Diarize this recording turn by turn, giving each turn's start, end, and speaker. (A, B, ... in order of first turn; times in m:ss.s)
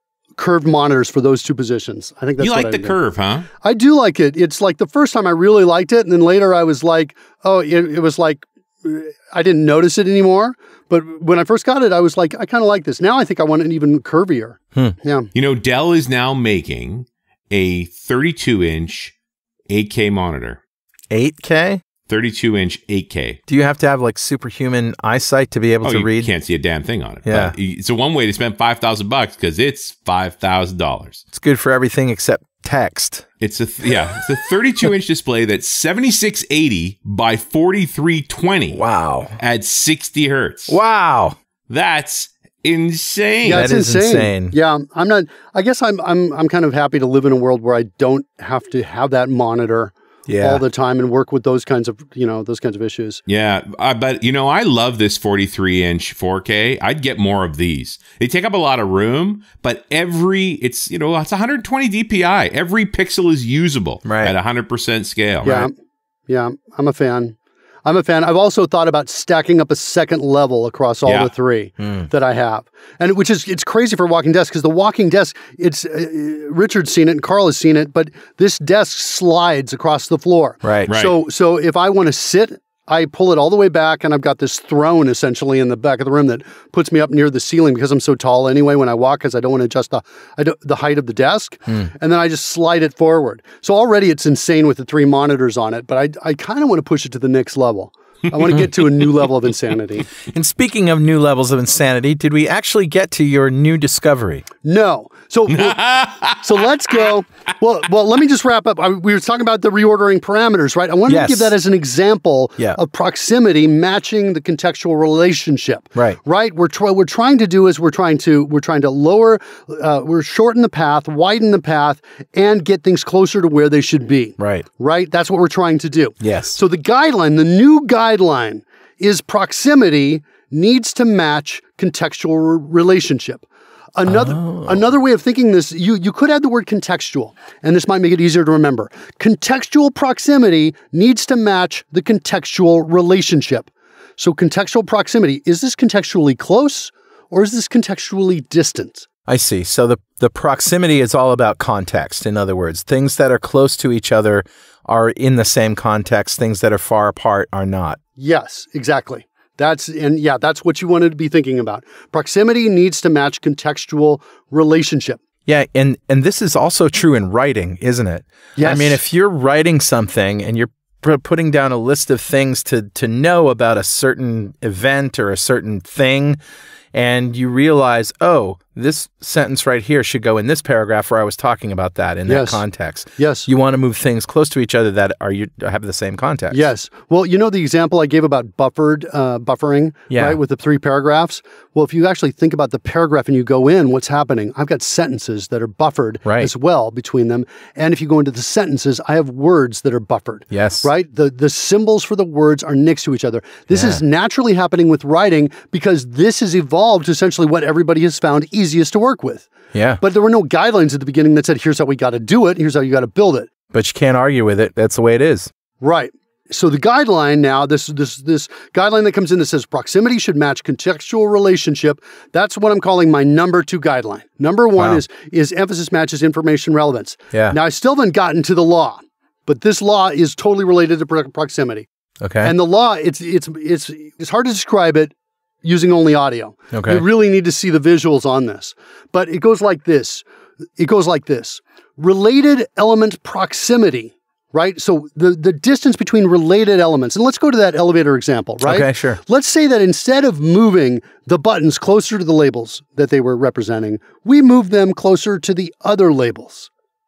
0:00.4-0:03.0 A
0:02.4-0:03.5 B
0:03.6-0:15.3 A
0:15.3-0:19.1 B
0:19.7-0:20.6 B
0:21.1-0:21.8 C
0:22.1-0:23.4 B
0:23.5-0:26.3 C
0:25.8-0:31.2 B
0:27.2-0:27.6 C
0:31.3-0:33.2 C
0:33.4-0:38.8 B
0:38.7-0:39.4 C
0:39.4-0:40.8 B
0:40.7-0:41.4 C
0:41.7-0:43.7 B
0:43.4-0:53.2 A
0:43.5-0:44.5 C
0:50.3-0:50.6 C
0:53.3-1:05.7 B
1:04.0-1:04.3 C
1:05.4-1:05.7 A
1:06.3-1:40.1 A
1:11.0-1:11.3 B
1:11.8-1:12.1 C
1:20.6-1:20.9 C
1:20.9-1:21.2 B
1:40.3-1:44.4 C
1:44.6-1:45.8 A
1:45.5-1:46.6 B
1:46.4-2:29.0 A
1:51.1-1:51.5 C
2:04.4-2:04.6 C
2:06.2-2:06.6 C
2:14.0-2:14.8 C
2:29.3-2:38.0 C
2:38.2-2:45.2 A
2:45.4-2:56.4 C
2:48.6-2:49.0 A
2:56.9-3:06.7 C
3:02.3-3:02.6 A
3:03.2-3:03.5 A
3:06.5-3:33.5 A
3:10.1-3:10.4 C
3:16.2-3:16.5 C
3:20.5-3:20.9 C
3:23.7-3:24.0 C
3:29.7-3:30.0 C
3:33.7-3:35.5 C
3:35.8-3:51.9 A
3:44.8-3:45.0 C
3:47.3-3:47.6 C
3:52.2-3:52.5 C
3:52.4-4:00.2 A
3:56.7-3:57.0 C
4:00.8-4:16.7 A
4:08.6-4:09.2 C